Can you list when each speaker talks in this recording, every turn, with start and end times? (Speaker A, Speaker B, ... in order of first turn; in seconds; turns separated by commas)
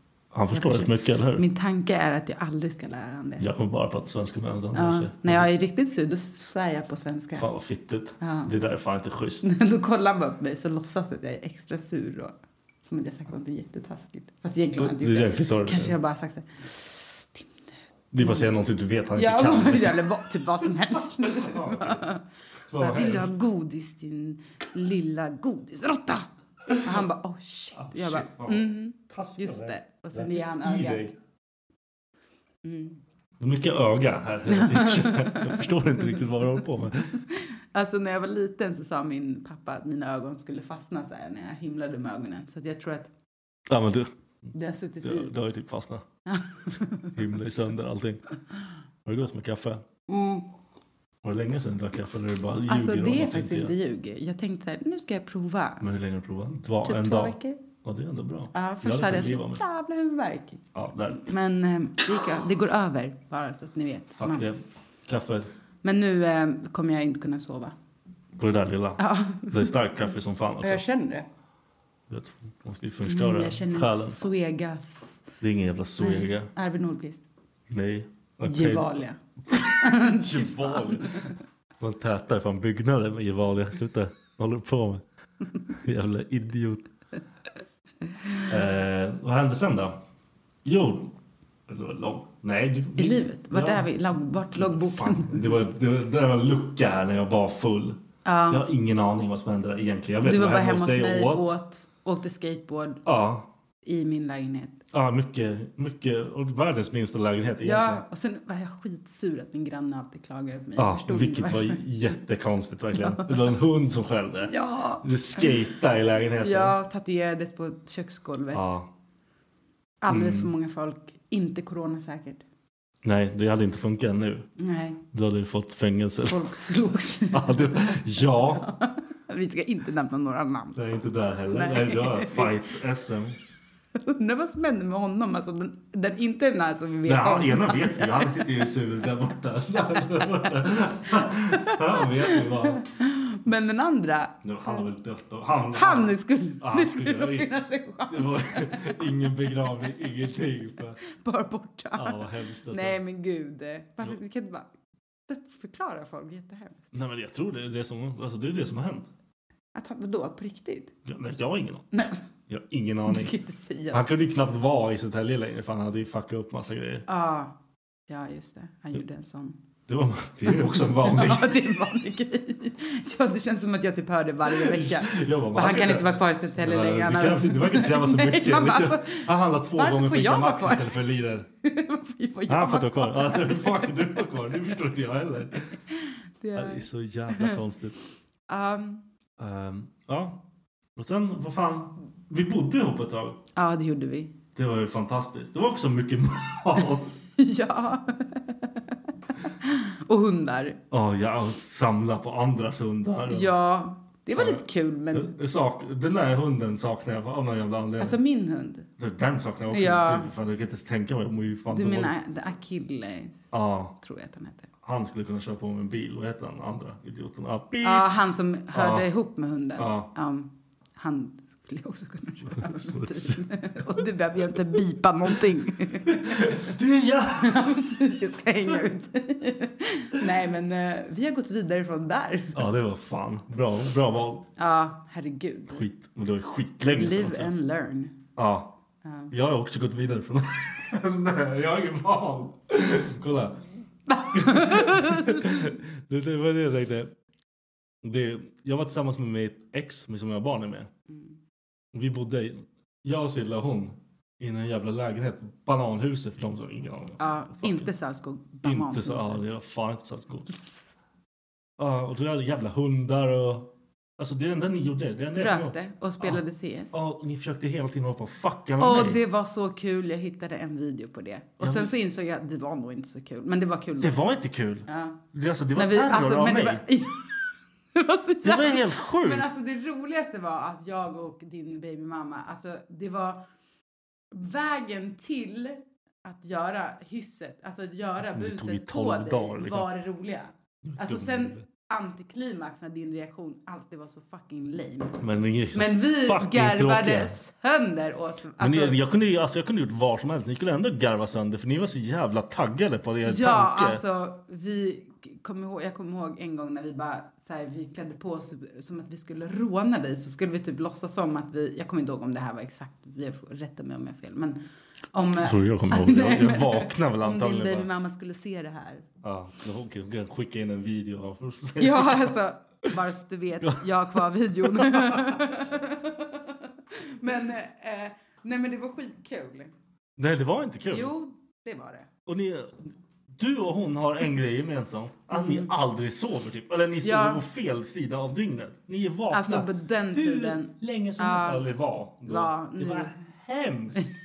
Speaker A: 0.3-1.4, Speaker B: 0.5-3.4, Speaker A: 3.4-5.5, Speaker B: 4.7-7.5, Speaker A: 7.3-9.4, Speaker B: 8.2-8.5, Speaker B: 9.4-17.6, Speaker A: 14.8-15.9, Speaker A: 18.1-20.2, Speaker B: 18.2-18.5, Speaker B: 19.1-22.2, Speaker A: 21.2-22.0, Speaker A: 22.7-23.3, Speaker B: 22.8-26.3, Speaker A: 26.7-27.0, Speaker B: 26.8-31.1, Speaker A: 27.7-31.1, Speaker B: 32.6-33.0, Speaker A: 33.4-37.1, Speaker B: 34.5-35.6, Speaker B: 37.4-43.1, Speaker A: 43.7-44.1, Speaker B: 44.5-45.3, Speaker A: 45.0-46.0, Speaker B: 46.3-47.1, Speaker A: 47.1-48.2, Speaker A: 49.0-49.8, Speaker B: 50.1-50.4, Speaker A: 51.2-53.7, Speaker B: 52.7-55.8, Speaker A: 55.8-59.6, Speaker B: 56.8-57.6, Speaker B: 58.5-64.5, Speaker A: 60.7-61.3, Speaker A: 64.2-65.5, Speaker B: 65.8-67.7, Speaker A: 68.4-70.8, Speaker B: 69.0-69.7, Speaker B: 70.6-71.2, Speaker A: 72.1-74.2, Speaker B: 73.0-75.2, Speaker A: 75.4-76.5, Speaker B: 76.0-77.2, Speaker A: 77.7-79.0, Speaker B: 78.4-81.2, Speaker A: 79.5-85.0, Speaker A: 85.7-86.9, Speaker A: 88.5-90.0, Speaker A: 90.6-91.1, Speaker A: 91.7-93.8, Speaker B: 93.0-95.5, Speaker A: 94.5-98.0, Speaker B: 98.2-98.7, Speaker A: 98.5-101.5, Speaker B: 100.2-103.0, Speaker A: 103.0-103.5, Speaker B: 103.8-104.8, Speaker A: 104.9-108.0, Speaker B: 107.6-111.8, Speaker A: 110.8-116.7, Speaker B: 113.0-113.4, Speaker B: 114.5-115.5, Speaker B: 116.4-118.7, Speaker A: 118.5-118.8, Speaker B: 120.0-122.4, Speaker A: 120.1-120.5, Speaker A: 123.0-124.5, Speaker B: 124.6-125.0, Speaker A: 125.1-126.5, Speaker B: 126.3-130.8, Speaker A: 127.3-128.7, Speaker A: 130.8-133.4, Speaker B: 131.5-132.6, Speaker B: 134.0-138.6, Speaker A: 137.1-142.8, Speaker B: 139.9-140.2, Speaker B: 141.2-144.9, Speaker A: 144.4-147.5, Speaker B: 145.7-149.1, Speaker A: 148.1-151.0, Speaker B: 151.0-154.7, Speaker A: 151.9-153.0, Speaker B: 155.3-156.9, Speaker A: 156.9-159.1, Speaker B: 159.7-160.9, Speaker A: 161.1-163.3, Speaker B: 163.1-164.1, Speaker A: 163.9-167.0, Speaker B: 167.1-167.5, Speaker B: 168.1-169.6, Speaker A: 169.9-171.5, Speaker B: 170.5-180.9, Speaker A: 174.5-181.5, Speaker B: 181.6-184.2, Speaker A: 182.5-185.7, Speaker B: 186.4-186.8, Speaker A: 186.5-187.9, Speaker B: 188.5-189.0, Speaker A: 189.4-190.4, Speaker A: 190.9-193.4, Speaker B: 193.6-194.3, Speaker A: 194.6-197.1, Speaker B: 197.4-198.8, Speaker B: 199.6-200.8, Speaker A: 200.9-203.5, Speaker B: 203.3-205.3, Speaker A: 204.3-204.6, Speaker A: 205.1-208.2, Speaker B: 208.0-208.8, Speaker A: 209.0-212.1, Speaker B: 209.7-210.3, Speaker B: 211.7-214.7, Speaker A: 213.5-213.9, Speaker A: 214.8-218.1, Speaker B: 217.8-226.7, Speaker A: 218.7-219.1, Speaker A: 219.8-220.1, Speaker A: 222.5-223.4, Speaker A: 226.1-227.7, Speaker B: 227.4-232.6, Speaker A: 232.5-234.5, Speaker B: 234.6-235.8, Speaker A: 235.7-237.5, Speaker B: 236.9-238.2, Speaker A: 238.3-238.7, Speaker B: 239.0-239.3, Speaker A: 239.3-243.6, Speaker B: 244.1-245.4, Speaker A: 244.3-247.1, Speaker A: 248.0-250.9, Speaker A: 251.9-257.9, Speaker B: 257.2-259.5, Speaker A: 258.6-260.5, Speaker A: 261.8-266.4, Speaker B: 265.4-266.9, Speaker A: 266.9-269.2, Speaker B: 268.8-274.2, Speaker A: 271.6-271.9, Speaker A: 274.0-276.8, Speaker B: 274.9-275.2, Speaker B: 275.7-277.4, Speaker B: 277.9-283.4, Speaker A: 278.4-279.5, Speaker B: 284.3-295.2, Speaker A: 288.3-289.9, Speaker A: 290.8-291.6, Speaker A: 295.2-297.3, Speaker B: 295.7-299.0, Speaker A: 298.6-304.0, Speaker B: 303.2-314.6, Speaker B: 315.1-319.1, Speaker A: 315.3-317.9, Speaker A: 319.2-322.3, Speaker B: 321.8-329.7, Speaker A: 323.6-325.4, Speaker A: 330.2-331.1, Speaker B: 330.9-332.1, Speaker A: 332.2-344.1, Speaker B: 335.3-335.7, Speaker B: 337.0-337.4, Speaker B: 339.3-341.7, Speaker B: 342.2-343.1